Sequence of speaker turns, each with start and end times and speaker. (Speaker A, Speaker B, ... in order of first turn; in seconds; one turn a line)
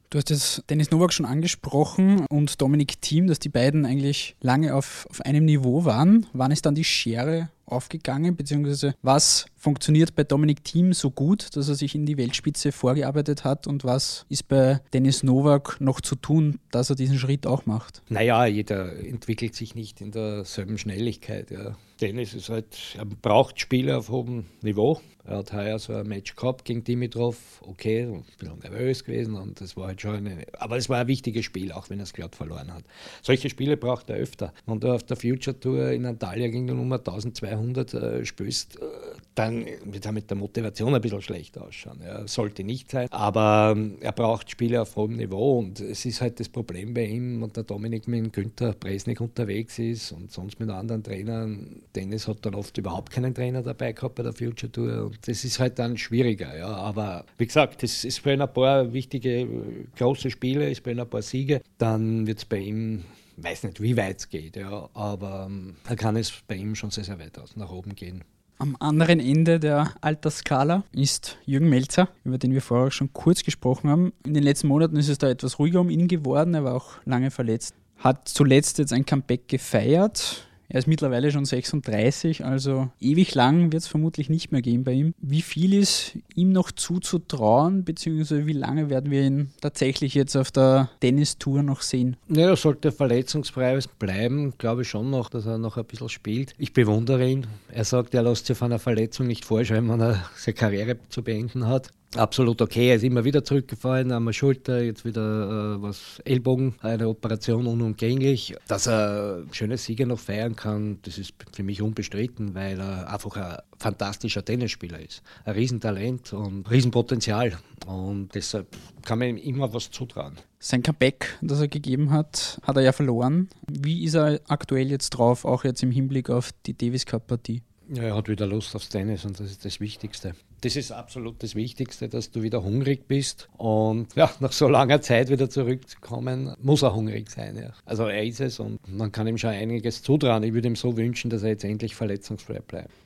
Speaker A: 0.1-18.0
Speaker B: 18.1-68.2
Speaker A: 68.6-92.2
Speaker B: 92.3-120.4
Speaker A: 120.6-127.6
Speaker B: 127.9-142.9